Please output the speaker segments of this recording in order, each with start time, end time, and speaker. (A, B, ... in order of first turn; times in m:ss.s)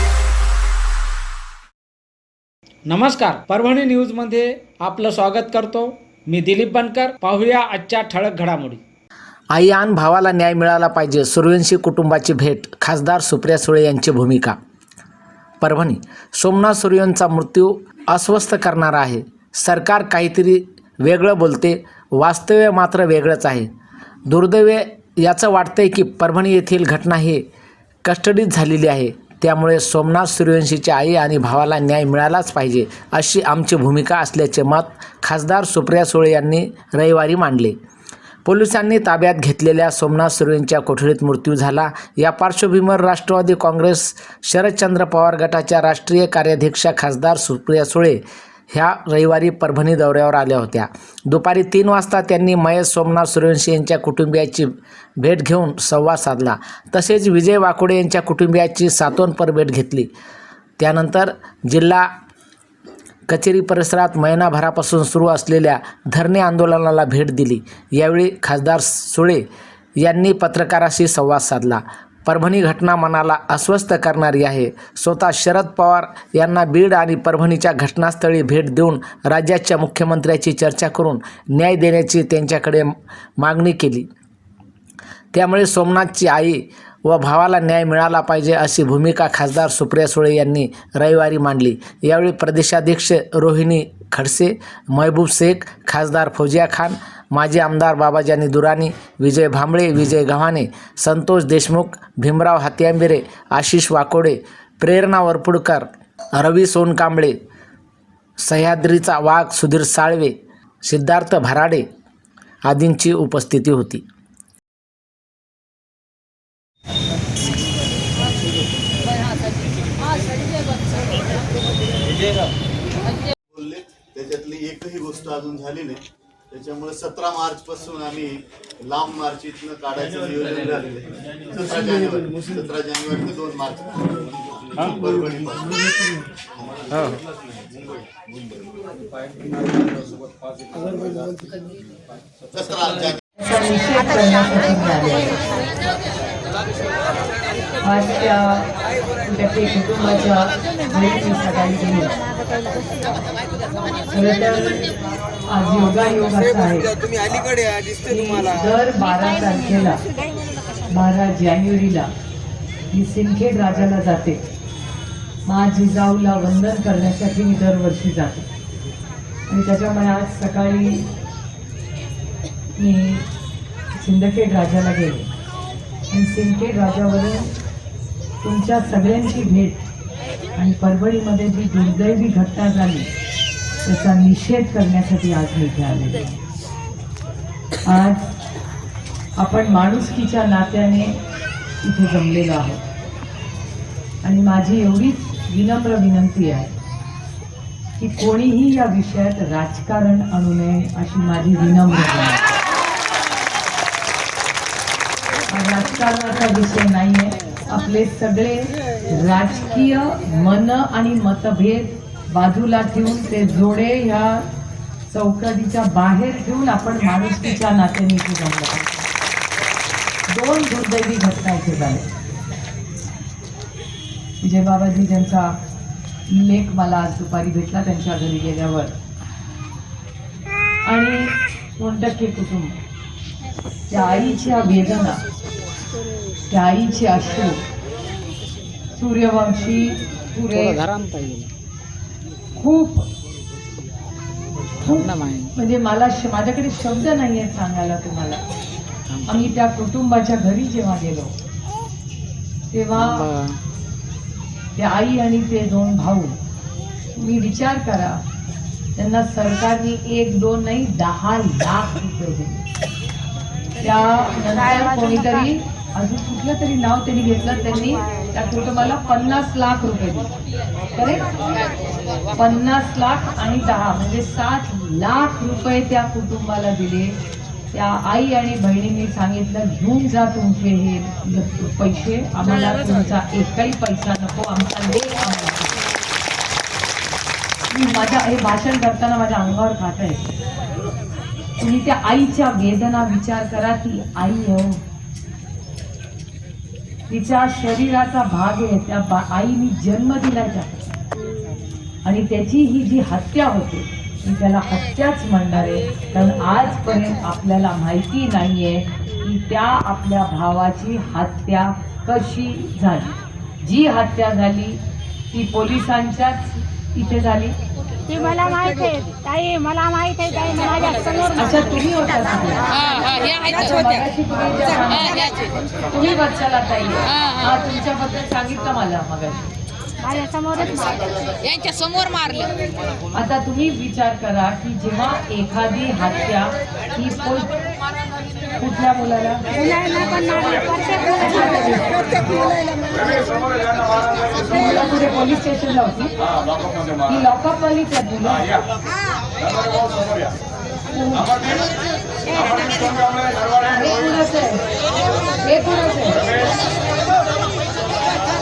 0:02.9-0:08.8 A
0:09.5-0:14.6 B
0:15.6-0:23.7 B
0:24.3-0:27.4 B
0:28.0-0:37.8 B
0:38.4-0:48.2 B
0:48.7-1:00.1 B
1:00.8-1:02.1 B
1:03.3-1:09.4 B
1:10.0-1:22.9 B
1:23.4-1:24.1 B
1:25.3-1:47.4 B
1:48.4-1:51.9 B
1:52.7-1:54.0 B
1:59.0-2:01.4 C
2:03.0-2:03.3 C
2:03.5-2:16.3 D
2:16.9-2:17.2 D
2:20.8-2:21.6 D
2:22.5-2:23.2 D
2:23.4-2:25.4 C
2:27.8-2:28.7 C
2:29.2-2:32.2 C
2:34.1-2:34.9 C
2:35.5-2:36.9 C
2:38.1-2:40.0 C
2:40.9-2:42.1 C
2:42.9-2:44.4 C
2:45.4-2:48.5 C
2:49.5-2:51.1 C
2:52.8-2:53.3 C
2:53.9-2:55.3 C
2:56.1-2:57.5 C
2:58.4-2:59.8 C
3:00.6-3:03.1 C
3:03.8-3:06.4 C
3:07.8-3:08.2 C
3:09.4-3:11.2 C
3:11.8-3:12.8 C
3:14.2-3:16.7 C
3:18.0-3:22.4 C
3:25.5-3:34.4 C
3:35.1-3:39.1 C
3:40.3-3:42.1 C
3:44.4-3:45.6 C
3:46.3-3:48.9 C
3:50.8-3:52.8 C
3:53.9-3:55.2 C
3:56.5-3:57.6 C
3:58.9-4:00.8 C
4:00.5-4:01.5 A
4:02.6-4:03.0 C
4:04.8-4:08.4 C
4:04.9-4:05.5 A
4:09.2-4:11.3 C
4:12.7-4:13.2 C
4:13.0-4:13.6 A
4:14.8-4:16.3 C
4:17.1-4:18.2 C
4:19.0-4:22.6 C
4:23.8-4:30.3 C
4:31.0-4:31.3 C
4:32.3-4:37.2 C
4:37.7-4:45.8 C
4:47.7-4:50.3 C
4:51.6-4:54.8 C
4:57.1-5:00.9 C
5:02.0-5:14.8 C
5:15.3-5:17.6 C
5:18.1-5:21.4 E
5:21.4-5:22.7 C
5:23.3-5:25.3 C
5:25.9-5:29.5 C
5:30.0-5:31.1 E
5:33.1-5:37.6 C
5:38.6-5:39.4 C
5:39.6-5:41.2 E
5:41.2-5:42.5 C
5:42.9-5:43.5 E
5:44.4-5:46.1 C
5:47.0-5:48.6 C
5:50.9-5:51.5 C
5:52.3-5:53.0 C
5:53.6-5:54.6 C
5:55.4-5:56.3 C